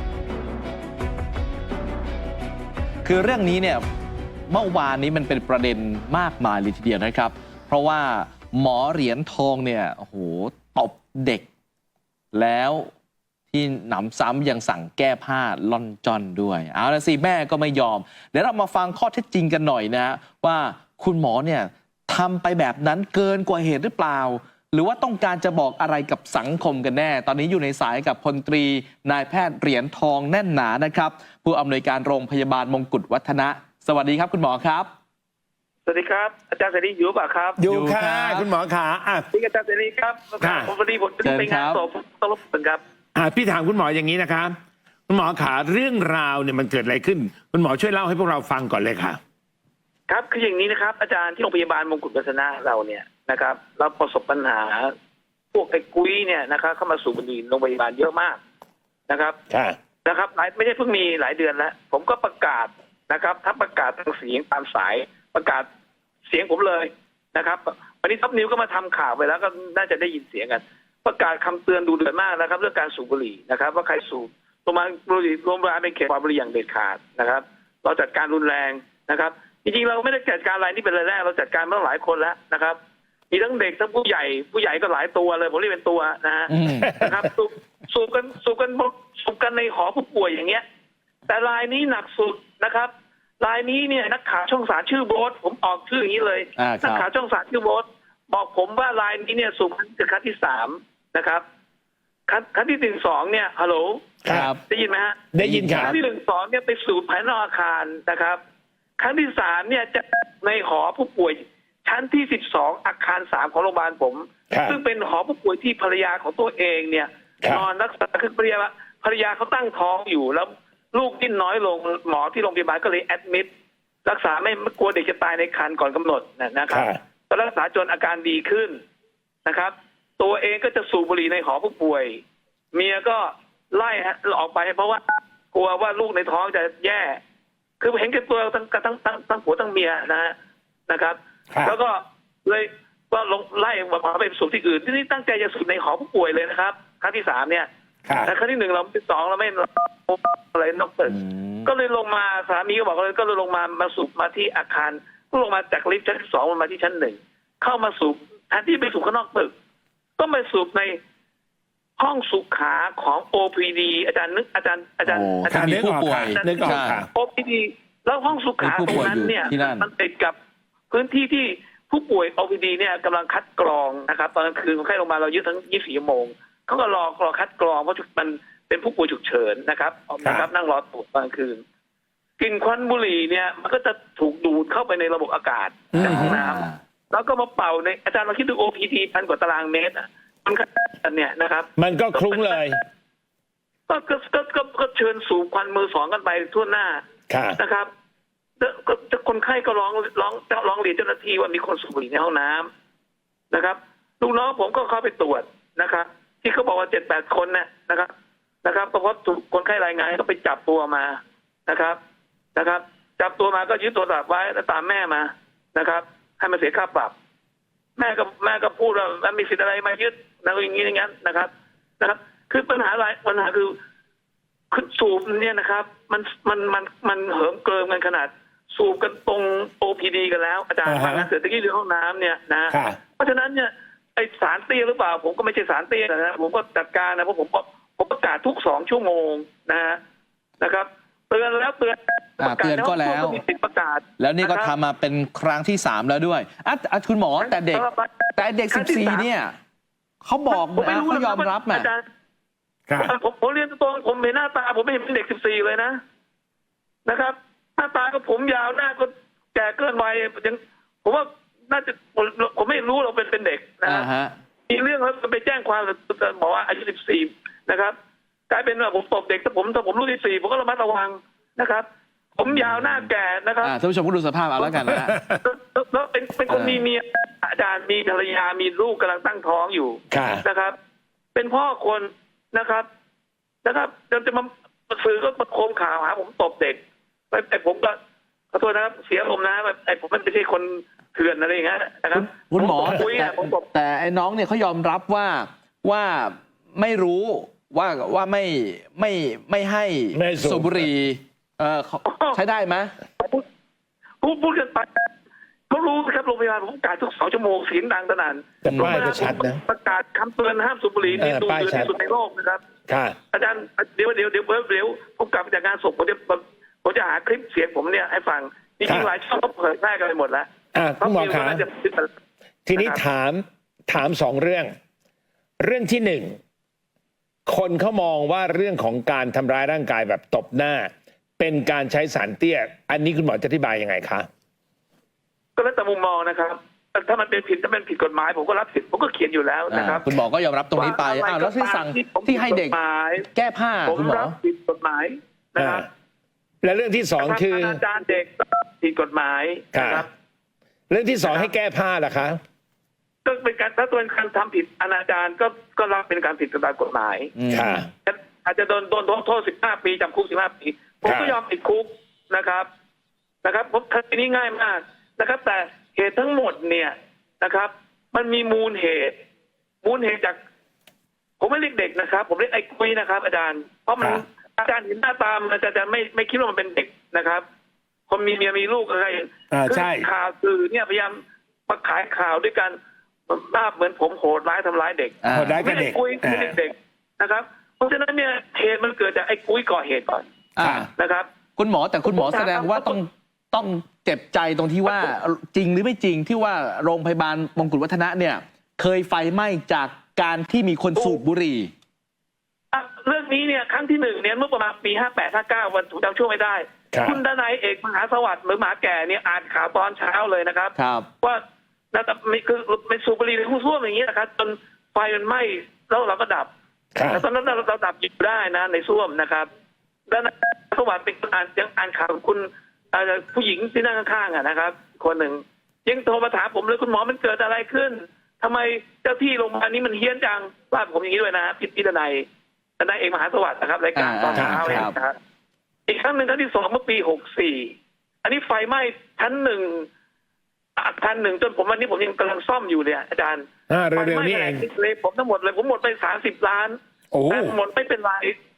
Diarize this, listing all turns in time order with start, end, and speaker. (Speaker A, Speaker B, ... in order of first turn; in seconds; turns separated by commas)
Speaker A: 3.0-3.8, Speaker A: 4.5-11.5, Speaker A: 12.3-12.9, Speaker A: 13.5-34.9, Speaker B: 35.9-37.6, Speaker C: 37.6-39.3, Speaker A: 37.6-38.5, Speaker B: 39.3-42.8, Speaker C: 40.4-40.7, Speaker A: 41.2-41.8, Speaker C: 43.1-44.5, Speaker C: 45.1-49.2, Speaker B: 50.1-54.9, Speaker B: 55.5-58.4, Speaker B: 59.1-59.4, Speaker C: 59.5-59.8, Speaker B: 60.0-65.7, Speaker B: 66.3-82.8, Speaker B: 83.3-90.6, Speaker A: 86.5-87.1, Speaker B: 91.3-101.4, Speaker A: 96.6-97.1, Speaker B: 102.3-104.2, Speaker C: 104.2-104.5, Speaker A: 104.3-104.6, Speaker B: 104.7-108.4, Speaker C: 105.3-106.0, Speaker A: 105.4-106.0, Speaker B: 109.0-123.5, Speaker C: 114.5-114.8, Speaker B: 124.0-128.8, Speaker C: 126.7-127.0, Speaker B: 129.4-132.2, Speaker B: 132.7-137.2, Speaker B: 137.8-140.3, Speaker B: 140.9-159.5, Speaker C: 141.5-141.8, Speaker C: 148.1-148.3, Speaker A: 151.1-151.7, Speaker B: 160.2-161.0, Speaker B: 162.0-170.4, Speaker A: 165.1-167.1, Speaker C: 165.5-167.1, Speaker A: 168.6-169.9, Speaker B: 170.9-181.6, Speaker C: 180.2-180.5, Speaker B: 182.4-192.7, Speaker C: 185.9-186.3, Speaker A: 186.0-186.8, Speaker C: 191.8-192.8, Speaker B: 193.9-197.0, Speaker C: 197.3-197.6, Speaker B: 197.6-197.9, Speaker B: 198.6-202.7, Speaker B: 203.5-208.1, Speaker B: 208.6-212.0, Speaker B: 212.6-217.1, Speaker B: 218.0-223.8, Speaker B: 224.7-240.0, Speaker C: 230.8-231.3, Speaker C: 232.7-233.0, Speaker B: 240.6-244.7, Speaker A: 242.4-243.4, Speaker A: 244.2-249.6, Speaker B: 247.4-249.3, Speaker A: 250.2-251.9, Speaker B: 250.5-252.0, Speaker C: 252.9-253.1, Speaker B: 253.0-256.0, Speaker B: 257.1-264.1, Speaker A: 263.9-264.4, Speaker B: 264.7-268.0, Speaker B: 268.5-273.7, Speaker A: 272.5-273.1, Speaker A: 273.6-275.2, Speaker C: 274.9-275.4, Speaker B: 275.4-280.8, Speaker A: 276.5-276.8, Speaker C: 280.1-280.4, Speaker B: 281.4-282.9, Speaker B: 283.6-286.8, Speaker B: 287.3-288.0, Speaker B: 288.5-293.7, Speaker A: 292.1-302.9, Speaker C: 300.1-300.9, Speaker B: 302.1-302.4, Speaker B: 304.2-305.1, Speaker B: 305.7-312.6, Speaker C: 308.6-309.6, Speaker A: 308.7-309.3, Speaker C: 311.1-311.9, Speaker C: 312.9-313.2, Speaker B: 313.3-320.5, Speaker C: 318.9-319.1, Speaker C: 320.8-321.6, Speaker B: 321.0-322.1, Speaker C: 322.7-324.7, Speaker B: 322.8-323.0, Speaker C: 325.6-326.4, Speaker C: 327.5-334.3, Speaker B: 335.6-340.2, Speaker A: 339.7-342.8, Speaker B: 340.7-343.3, Speaker A: 343.3-344.4, Speaker B: 343.9-345.9, Speaker C: 345.6-345.9, Speaker C: 346.6-347.8, Speaker B: 347.2-350.1, Speaker C: 349.7-350.1, Speaker C: 350.9-352.4, Speaker B: 351.2-351.5, Speaker B: 353.2-357.3, Speaker A: 357.4-357.9, Speaker C: 357.5-357.9, Speaker B: 358.1-362.7, Speaker C: 361.1-361.3, Speaker B: 363.4-369.2, Speaker B: 369.8-370.4, Speaker B: 371.4-377.4, Speaker B: 378.1-390.2, Speaker C: 379.5-380.1, Speaker A: 385.2-385.7, Speaker C: 385.3-386.6, Speaker A: 390.6-390.9, Speaker C: 390.6-390.9, Speaker B: 391.0-391.3, Speaker A: 391.6-401.7, Speaker B: 392.1-393.0, Speaker B: 401.0-401.2, Speaker B: 402.7-416.5, Speaker C: 406.9-407.2, Speaker A: 410.8-411.1, Speaker C: 416.9-417.2, Speaker B: 417.1-419.5, Speaker B: 420.1-432.3, Speaker B: 432.8-435.2, Speaker A: 433.9-434.9, Speaker C: 434.4-434.9, Speaker B: 435.9-439.9, Speaker B: 440.8-448.4, Speaker C: 443.7-444.7, Speaker C: 447.1-447.6